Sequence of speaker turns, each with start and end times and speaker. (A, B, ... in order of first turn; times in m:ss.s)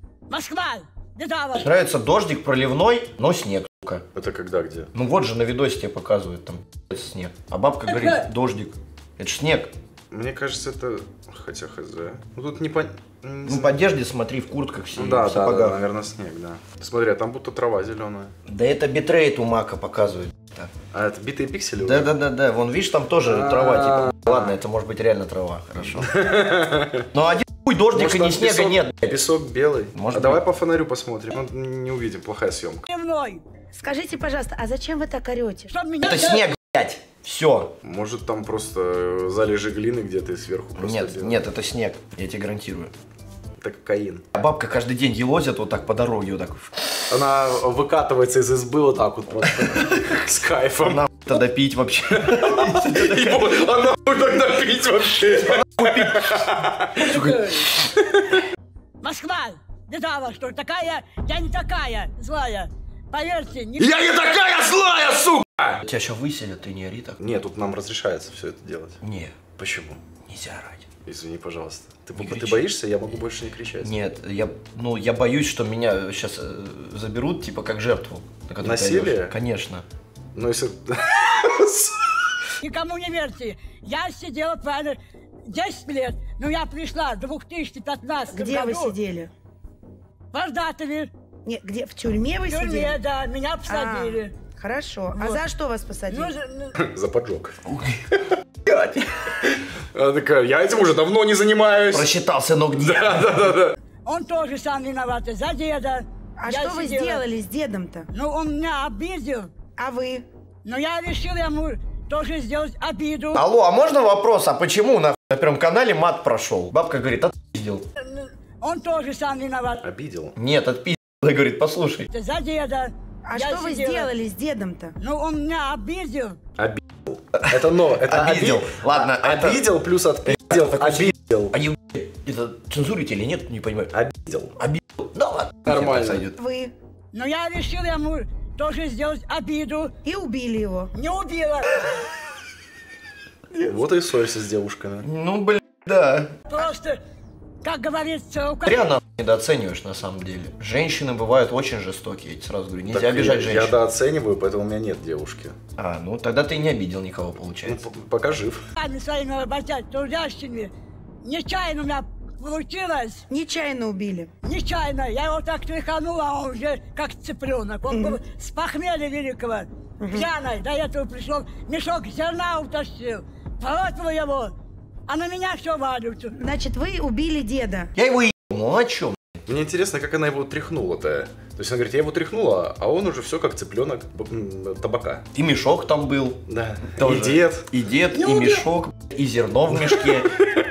0:00.3-0:01.7 A
0:01.5-0:04.0 B
0:04.1-0:04.9 C
0:04.9-0:09.7 B
0:07.9-0:08.2 A
0:10.1-0:13.8 C
0:13.4-0:15.8 B
0:15.0-0:18.3 C
0:18.4-0:20.7 B
0:20.9-0:22.1 C
0:21.8-0:26.2 B
0:23.4-0:24.5 C
0:26.0-0:27.0 C
0:27.1-0:29.2 B
0:27.9-0:32.8 C
0:29.9-0:30.4 B
0:32.9-0:33.4 A
0:33.7-0:35.7 D
0:35.7-0:36.5 A
0:36.0-0:37.7 B
0:37.8-0:41.4 C
0:40.8-0:42.9 B
0:43.6-0:44.2 C
0:44.3-0:46.8 B
0:47.1-0:51.0 C
0:50.8-0:53.4 B
0:52.2-0:57.2 C
0:55.5-0:57.7 B
0:59.0-1:03.9 A
1:03.8-1:04.2 B
1:04.0-1:05.8 C
1:05.8-1:07.2 B
1:07.2-1:09.0 C
1:09.0-1:09.4 B
1:09.6-1:10.0 C
1:10.2-1:10.9 B
1:11.0-1:13.9 C
1:12.2-1:12.7 B
1:13.8-1:19.8 B
1:18.6-1:19.3 C
1:20.3-1:22.1 C
1:22.6-1:29.0 A
1:28.3-1:29.3 D
1:30.3-1:31.1 A
1:31.4-1:33.0 D
1:32.5-1:34.3 A
1:33.6-1:36.3 D
1:35.1-1:35.4 A
1:36.1-1:36.8 A
1:36.8-1:37.6 C
1:37.6-1:39.0 B
1:39.9-1:42.1 C
1:41.9-1:43.5 B
1:42.8-1:43.8 C
1:44.0-1:47.2 A
1:46.4-1:48.1 D
1:48.1-1:49.5 A
1:49.8-1:50.2 D
1:50.6-1:53.4 A
1:53.3-1:57.8 B
1:58.0-1:59.8 A
1:59.8-2:00.3 C
2:00.4-2:02.1 B
2:02.1-2:04.1 A
2:03.2-2:05.0 D
2:05.0-2:06.4 A
2:06.6-2:11.5 C
2:08.0-2:09.7 B
2:10.3-2:13.9 B
2:13.9-2:14.5 C
2:14.6-2:16.4 B
2:15.7-2:16.2 C
2:16.4-2:16.7 D
2:17.1-2:19.9 A
2:20.0-2:20.9 D
2:20.9-2:22.0 A
2:23.6-2:25.0 C
2:25.0-2:26.3 B
2:26.5-2:27.0 A
2:27.6-2:28.9 A
2:28.6-2:33.8 B
2:32.9-2:35.5 C
2:35.8-2:37.8 B
2:37.6-2:38.6 C
2:38.8-2:40.7 A
2:41.2-2:43.2 A
2:43.3-2:44.3 D
2:44.4-2:54.5 A
2:47.9-2:48.2 D
2:50.0-2:50.3 D
2:55.1-2:56.4 A
2:56.3-2:57.9 D
2:57.9-2:59.4 B
2:59.5-3:05.2 C
3:05.3-3:10.5 B
3:06.5-3:07.7 C
3:08.2-3:08.6 A